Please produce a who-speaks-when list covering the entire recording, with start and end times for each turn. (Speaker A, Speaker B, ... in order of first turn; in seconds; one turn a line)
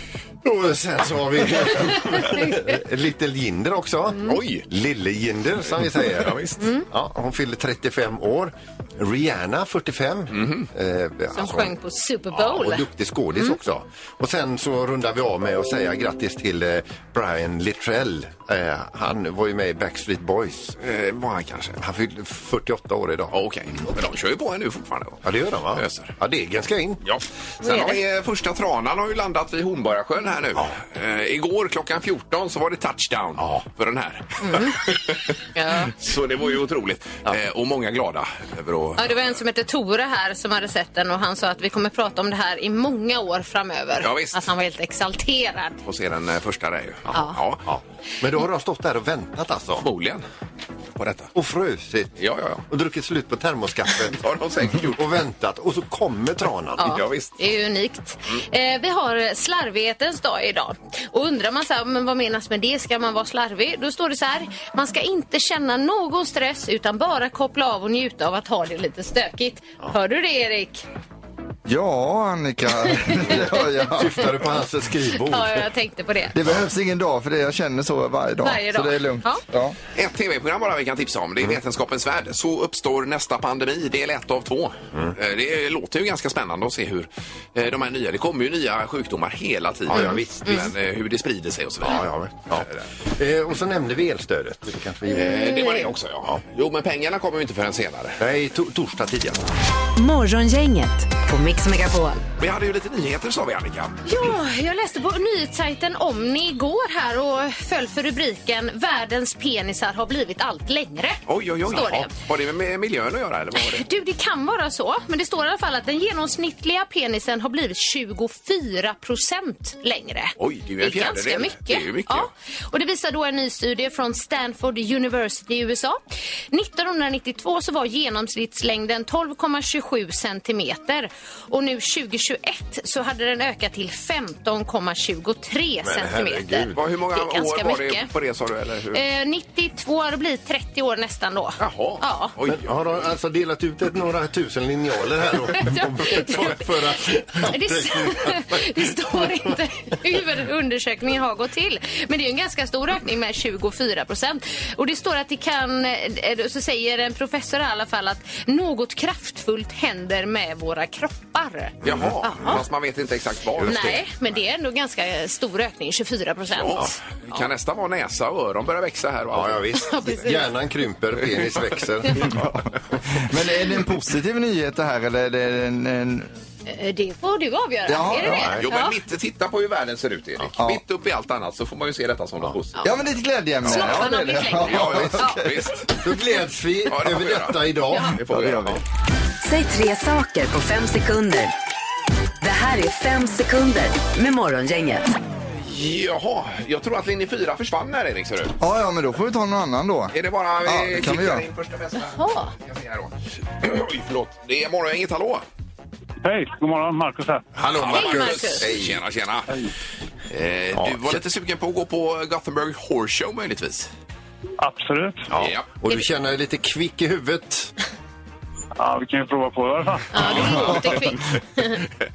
Speaker A: 0.4-11.8
Speaker B: 2.2-2.6
Speaker C: 4.2-4.7
Speaker C: 5.9-6.6
Speaker B: 6.6-6.9
Speaker C: 10.3-10.7
Speaker B: 11.3-12.9
Speaker A: 12.4-20.8
Speaker C: 20.8-21.8
Speaker A: 21.8-23.4
Speaker C: 23.3-26.1
Speaker A: 25.2-27.0
Speaker C: 27.0-35.2
Speaker B: 27.6-28.0
Speaker B: 34.4-34.8
Speaker B: 35.5-35.9
Speaker C: 35.9-39.2
Speaker B: 39.0-45.8
Speaker C: 44.0-44.5
Speaker C: 45.9-47.6
Speaker A: 47.1-49.9
Speaker B: 47.1-47.4
Speaker C: 49.8-50.2
Speaker C: 51.0-51.3
Speaker A: 51.4-52.2
Speaker C: 52.2-52.6
Speaker A: 52.7-54.2
Speaker C: 54.2-55.0
Speaker A: 54.7-57.0
Speaker B: 56.8-70.8
Speaker C: 56.8-57.3
Speaker D: 71.7-74.2
Speaker B: 73.2-73.5
Speaker A: 73.9-75.7
Speaker B: 75.2-76.3
Speaker D: 76.3-79.8
Speaker B: 78.4-79.4
Speaker C: 79.9-92.9
Speaker A: 89.9-90.7
Speaker B: 89.9-90.7
Speaker A: 91.8-95.5
Speaker C: 95.1-98.2
Speaker B: 95.1-95.9
Speaker A: 98.2-99.4
Speaker E: 100.0-102.2
Speaker C: 102.4-104.0
Speaker B: 104.0-112.1
Speaker C: 111.3-113.8
Speaker B: 113.5-138.1
Speaker C: 120.4-122.3
Speaker A: 135.8-136.8
Speaker C: 136.7-139.0
Speaker B: 138.9-142.3
Speaker C: 141.6-142.7
Speaker A: 142.5-149.3
Speaker B: 145.6-146.7
Speaker B: 147.4-162.6
Speaker A: 161.8-162.6
Speaker C: 161.8-163.9
Speaker A: 163.6-164.0
Speaker B: 163.6-167.5
Speaker C: 166.5-169.7
Speaker A: 169.3-172.3
Speaker B: 169.8-170.5
Speaker D: 172.3-176.3
Speaker B: 176.7-178.9
Speaker D: 177.9-178.6
Speaker A: 178.3-178.7
Speaker C: 178.6-182.9
Speaker D: 182.8-185.7
Speaker C: 183.7-184.0
Speaker B: 183.7-185.4
Speaker C: 184.6-185.9
Speaker A: 186.0-188.2
Speaker C: 186.9-188.8
Speaker D: 188.2-188.8
Speaker E: 189.4-191.5
Speaker E: 192.4-195.1
Speaker C: 195.7-198.6
Speaker D: 198.6-201.4
Speaker C: 200.1-205.4
Speaker B: 202.1-202.5
Speaker F: 206.2-207.4
Speaker A: 207.6-209.0
Speaker C: 207.7-209.5
Speaker B: 207.9-208.7
Speaker C: 210.3-213.9
Speaker A: 210.7-211.2
Speaker F: 214.6-215.3
Speaker A: 215.3-217.7
Speaker C: 215.3-215.7
Speaker F: 218.8-220.8
Speaker B: 220.1-221.8
Speaker D: 220.4-221.0